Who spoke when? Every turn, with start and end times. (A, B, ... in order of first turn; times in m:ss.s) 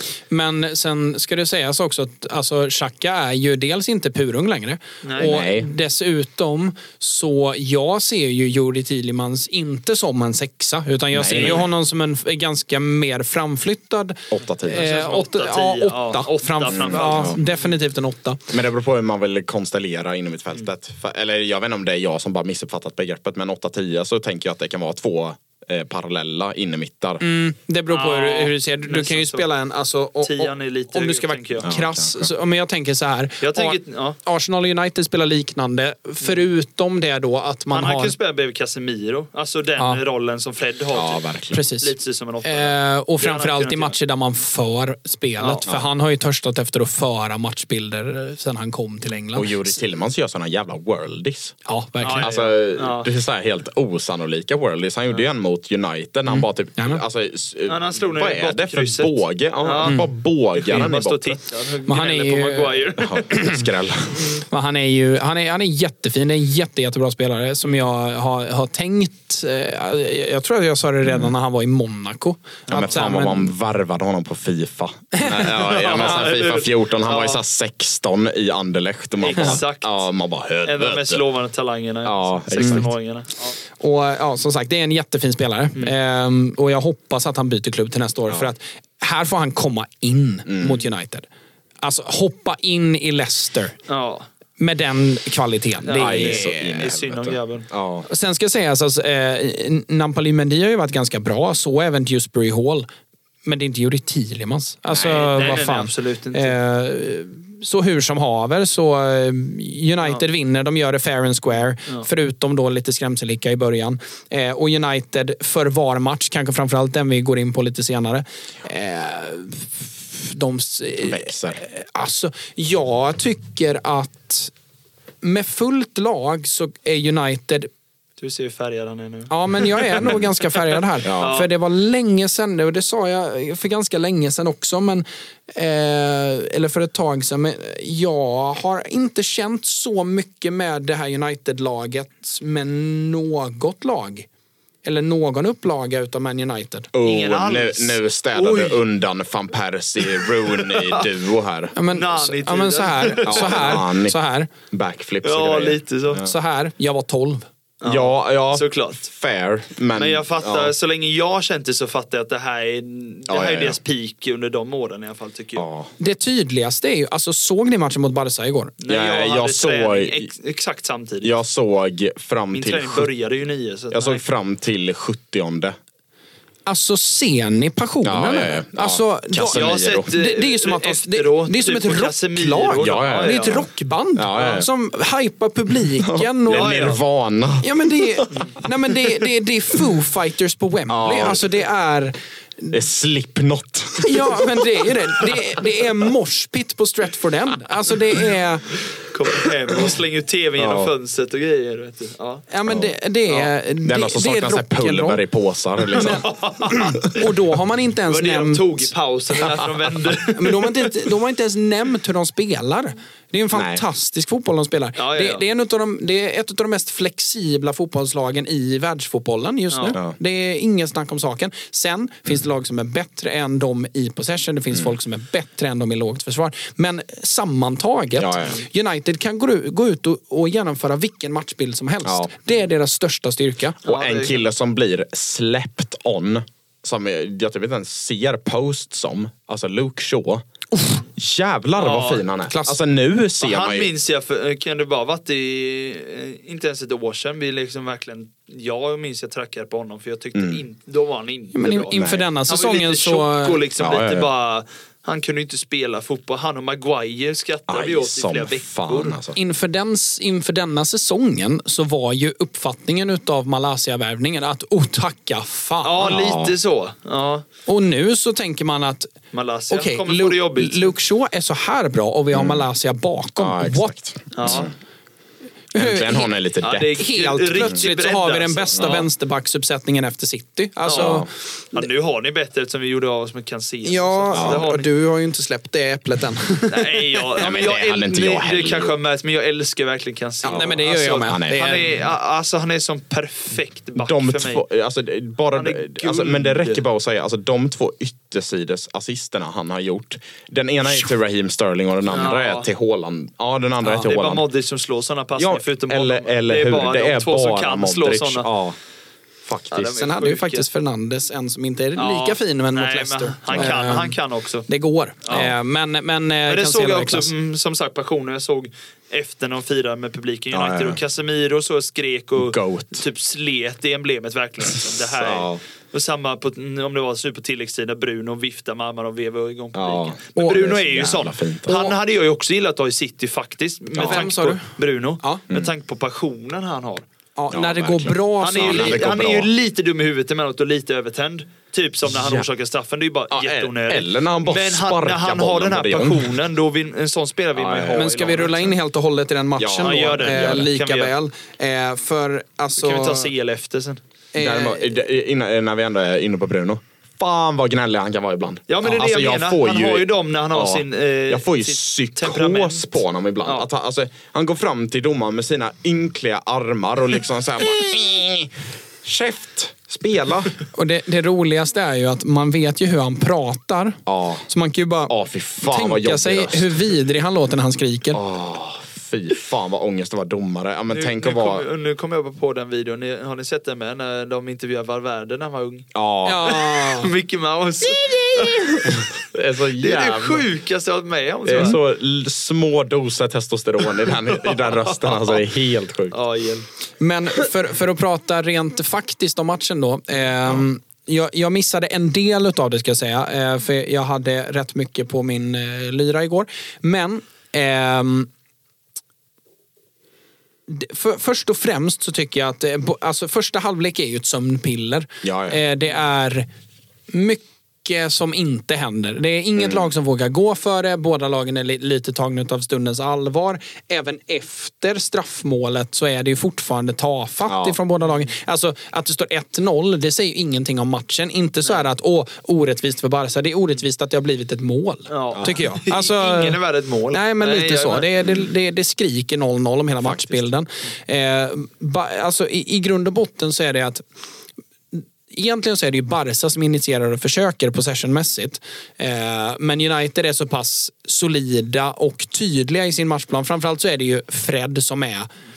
0:00.3-0:18.5 A
0:05.0-0:05.4 B
0:05.2-0:05.7 C
0:11.1-0:11.6 C
0:11.3-0:11.6 B
0:14.3-0:14.8 C
0:14.7-0:17.6 B
0:16.7-0:17.4 C
0:18.5-0:27.2 C
0:27.2-0:38.1 A
0:27.9-0:29.5 B
0:30.2-0:31.7 B
0:31.6-0:32.3 C
0:33.4-0:34.2 B
0:37.7-0:41.2 B
0:40.9-0:41.6 C
0:41.5-0:49.7 A
0:41.8-0:43.9 B
0:45.4-0:45.6 B
0:49.3-0:51.6 C
0:51.6-0:52.3 A
0:52.0-0:53.1 B
0:52.2-1:01.4 C
0:56.3-0:57.0 A
0:57.7-1:03.6 B
1:01.8-1:02.8 A
1:03.0-1:04.2 C
1:04.1-1:04.4 B
1:04.5-1:13.5 A
1:12.7-1:21.2 C
1:12.7-1:13.0 B
1:15.1-1:15.6 A
1:15.5-1:17.4 B
1:19.2-1:20.0 B
1:20.6-1:23.5 B
1:22.0-1:22.9 C
1:22.6-1:22.9 A
1:23.8-1:31.3 A
1:30.5-1:30.8 C
1:31.8-1:33.8 A
1:33.9-1:34.3 B
1:34.6-1:36.6 A
1:35.8-1:37.7 B
1:35.9-1:38.0 C
1:38.1-1:42.9 A
1:43.4-2:04.5 A
1:44.9-1:45.6 C
1:45.1-1:46.6 B
2:01.0-2:01.6 C
2:05.2-2:07.7 A
2:08.2-2:10.2 B
2:09.3-2:24.3 A
2:11.0-2:11.4 C
2:11.2-2:11.5 B
2:24.8-2:26.9 A
2:26.9-2:31.7 C
2:27.0-2:28.8 B
2:30.2-2:31.0 B
2:31.7-2:34.5 A
2:31.9-2:33.8 B
2:33.3-2:34.2 C
2:34.7-2:36.3 C
2:35.2-2:36.3 B
2:36.2-2:37.5 A
2:37.8-2:39.1 B
2:37.8-2:40.7 C
2:39.9-2:45.6 B
2:43.3-2:43.8 C
2:45.6-2:45.9 C
2:46.0-2:48.7 A
2:48.8-2:51.3 B
2:48.9-2:50.3 C
2:51.2-2:53.1 C
2:52.5-2:54.2 B
2:53.9-2:55.8 C
2:56.6-3:06.9 A
2:58.0-3:00.1 C
2:59.4-3:03.6 B
3:02.8-3:04.7 C
3:06.0-3:08.5 C
3:06.5-3:07.0 B
3:07.6-3:12.8 A
3:10.9-3:11.4 C
3:12.7-3:14.9 C
3:14.0-3:18.8 A
3:19.1-3:22.4 B
3:20.6-3:20.9 C
3:22.5-3:25.2 A
3:22.6-3:26.3 C
3:25.9-3:28.9 A
3:26.0-3:27.2 B
3:28.1-3:30.9 B
3:30.2-3:53.8 A
3:33.5-3:33.8 C
3:35.0-3:35.4 B
3:48.2-3:48.6 C
3:52.0-3:52.3 C
3:53.8-3:54.4 B
3:53.8-4:00.4 C
4:00.7-4:01.0 A
4:01.1-4:03.9 C
4:01.8-4:02.3 B
4:02.5-4:02.8 A
4:03.4-4:11.8 B
4:10.3-4:10.6 C
4:11.5-4:13.6 A
4:11.6-4:12.3 C
4:12.5-4:19.2 B
4:13.8-4:14.3 C
4:17.7-4:19.4 C
4:19.3-4:26.2 A
4:25.8-4:27.4 B
4:26.0-4:26.6 C
4:27.7-4:29.1 A
4:29.3-4:30.9 B
4:29.7-4:34.6 A
4:32.3-4:32.6 C
4:33.4-4:34.7 C
4:34.3-4:34.7 B
4:35.7-4:36.3 A
4:35.7-4:36.9 C
4:36.6-4:39.1 B
4:37.0-4:41.9 A
4:40.8-4:44.9 B
4:40.9-4:41.3 C
4:43.8-4:47.0 A
4:44.3-4:44.6 C
4:46.7-4:54.6 B
4:47.4-4:48.9 C
4:50.4-4:51.8 C
4:50.5-4:51.9 A
4:54.0-5:04.4 C
4:55.5-4:56.8 B
5:02.1-5:02.6 B
5:03.8-5:04.1 A
5:04.0-5:08.5 B
5:05.4-5:08.8 C
5:09.4-5:09.9 C
5:09.7-5:10.6 B
5:09.9-5:17.3 A
5:12.0-5:14.7 B
5:16.5-5:37.0 B
5:20.5-5:21.0 C
5:22.4-5:23.0 C
5:24.8-5:25.6 C
5:29.7-5:32.0 C
5:33.9-5:34.3 C
5:34.0-5:34.7 A
5:37.4-5:39.1 A
5:37.5-5:39.5 C
5:38.4-5:48.6 B
5:42.1-5:42.5 C
5:43.3-5:46.3 C
5:47.6-5:48.7 C
5:48.0-5:53.3 A
5:49.6-5:50.7 C
5:49.8-5:51.1 B
5:52.8-5:54.0 B
5:54.3-5:54.9 A
5:54.4-6:10.5 C
5:58.7-6:03.7 B
6:10.7-6:18.2 A
6:14.1-6:14.4 C
6:15.1-6:16.7 C
6:18.1-6:21.6 C
6:20.9-6:25.9 B
6:25.9-6:26.5 C
6:26.2-6:27.1 A
6:26.4-6:29.1 B
6:27.8-6:30.5 C
6:29.8-6:31.8 B
6:31.4-6:36.2 C
6:34.2-6:35.4 B
6:36.1-6:36.7 B
6:37.0-6:48.3 A
6:50.7-6:56.5 A
6:55.2-6:55.6 C
6:57.1-7:16.6 A
7:07.5-7:07.8 C
7:15.1-7:18.1 B
7:15.3-7:15.6 C
7:17.1-7:24.0 A
7:24.9-7:35.3 A